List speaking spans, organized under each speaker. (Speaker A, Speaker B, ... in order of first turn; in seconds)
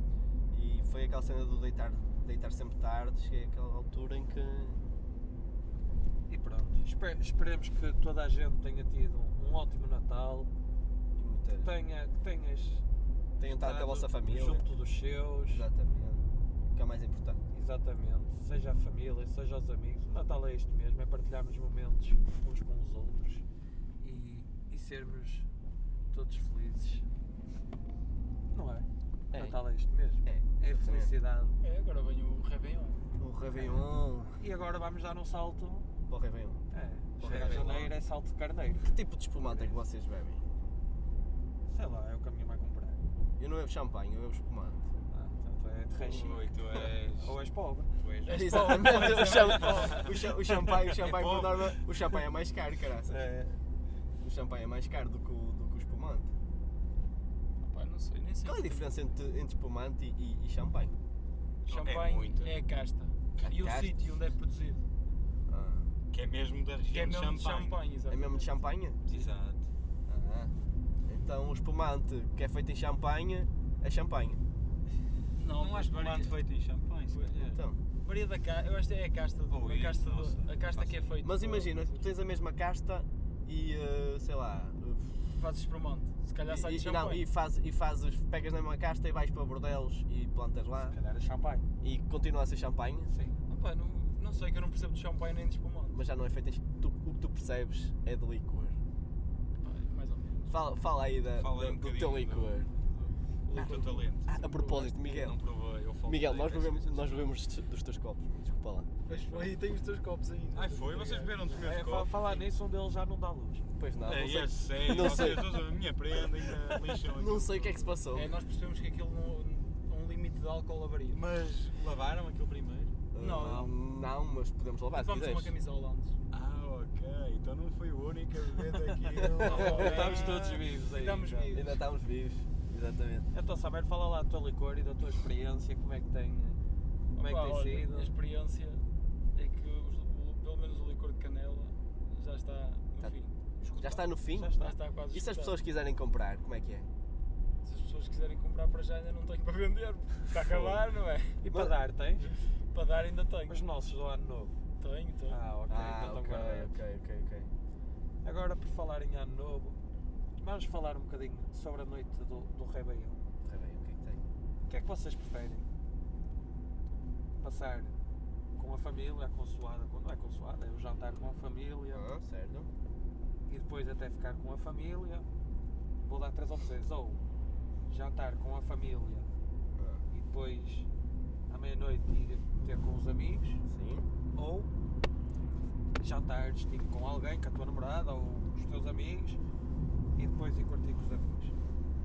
Speaker A: 0.5-4.8, 11.2-11.7, 13.4-14.6, 15.5-17.4, 30.2-31.1, 33.2-34.4, 36.1-36.6, 37.2-37.9, 38.8-40.5, 43.4-44.8, 48.3-53.2, 54.2-56.3, 58.5-61.0, 63.4-64.0, 65.5-65.9, 68.1-69.0, 70.1-70.5, 71.1-74.4, 77.5-77.8, 81.2-85.2, 86.5-91.0, 91.8-93.1, 95.9-98.8, 100.5-102.7, 104.3-105.4, 106.1-109.0, 113.8-115.6, 117.1-118.3, 123.1-125.5, 129.3-130.2, 131.5-133.3, 143.7-144.6, 145.1-146.9, 150.4-150.8, 155.7-157.5, 163.4-164.2, 171.9-172.7, 179.8-180.1, 183.7-184.1
Speaker B: 6.3-10.5, 11.6-12.8, 13.4-15.7, 17.5-23.4, 24.0-25.5, 26.1-27.1, 28.5-31.6, 33.5-33.8, 34.4-35.9, 36.7-39.7, 41.7-43.0, 45.1-48.0, 49.2-51.0, 53.1-53.6, 90.9-91.7, 93.1-93.4, 111.5-113.7, 129.4-131.5, 133.3-136.6, 137.2-138.1, 144.3-144.8, 151.4-152.3, 153.5-154.5, 155.3-156.8, 158.2-159.8, 160.4-163.2, 164.7-165.7, 167.4-167.9, 168.6-172.1, 173.5-175.3, 176.0-177.2, 177.9-179.3, 180.1-180.9, 181.5-183.6, 184.3-184.7, 186.0-189.4, 190.2-191.5
Speaker C: 31.6-33.0, 48.2-50.1, 57.6-58.9, 61.7-64.8, 66.9-68.5, 75.4-76.3, 77.1-82.1, 85.3-87.3, 93.5-96.0, 99.6-100.5, 103.5-105.0, 109.1-111.5, 118.1-121.2, 123.2-123.7, 124.9-126.2, 129.4-131.8, 137.2-144.0, 144.6-145.6, 147.6-151.4, 152.2-153.6, 154.8-155.4
Speaker D: 37.2-37.9, 46.0-47.4, 48.0-48.5, 50.8-51.8, 61.7-62.6, 66.1-67.8, 69.1-69.7, 75.5-77.5, 79.5-81.0, 101.4-104.3, 105.0-107.3, 109.1-109.5, 110.5-112.5, 114.0-118.0, 121.1-122.9, 126.3-130.2